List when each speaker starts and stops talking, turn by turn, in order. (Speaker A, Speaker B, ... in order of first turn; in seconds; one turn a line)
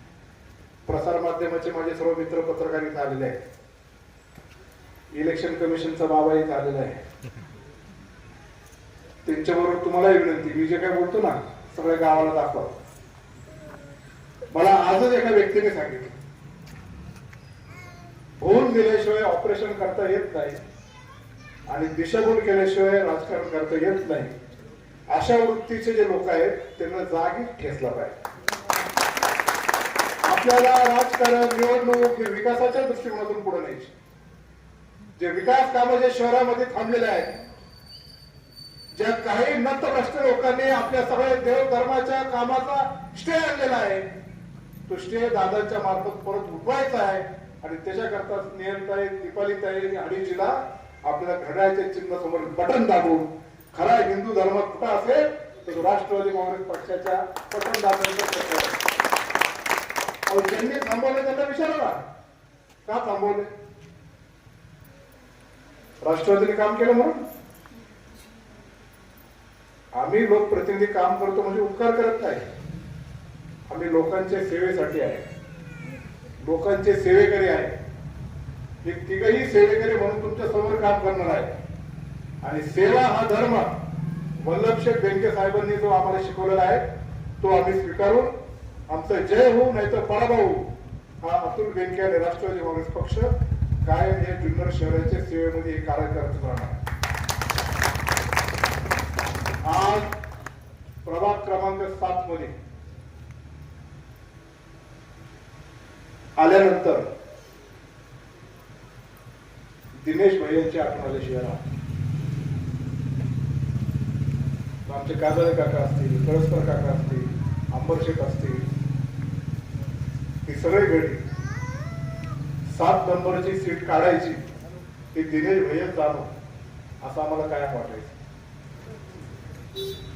Speaker A: 0.9-3.4
Speaker A: 5.1-7.0
Speaker A: 9.2-12.8
Speaker A: 14.5-16.2
Speaker A: 18.4-20.6
Speaker A: 21.7-24.3
Speaker A: 25.1-28.2
Speaker A: 30.2-33.9
Speaker A: 35.2-37.4
Speaker A: 39.0-44.1
Speaker A: 44.9-58.8
Speaker A: 60.3-62.0
Speaker A: 62.9-63.5
Speaker A: 66.0-67.2
Speaker A: 70.0-72.4
Speaker A: 73.7-75.3
Speaker A: 76.4-77.8
Speaker A: 78.8-81.5
Speaker A: 82.4-83.7
Speaker A: 84.5-86.8
Speaker A: 87.4-88.3
Speaker A: 88.9-90.7
Speaker A: 91.2-93.3
Speaker A: 93.8-96.8
Speaker A: 99.7-100.1
Speaker A: 101.0-102.5
Speaker A: 106.4-107.1
Speaker A: 110.0-111.6
Speaker A: 114.9-118.7
Speaker A: 120.5-121.2
Speaker A: 122.7-124.4
Speaker A: 125.1-126.3
Speaker A: 127.0-128.2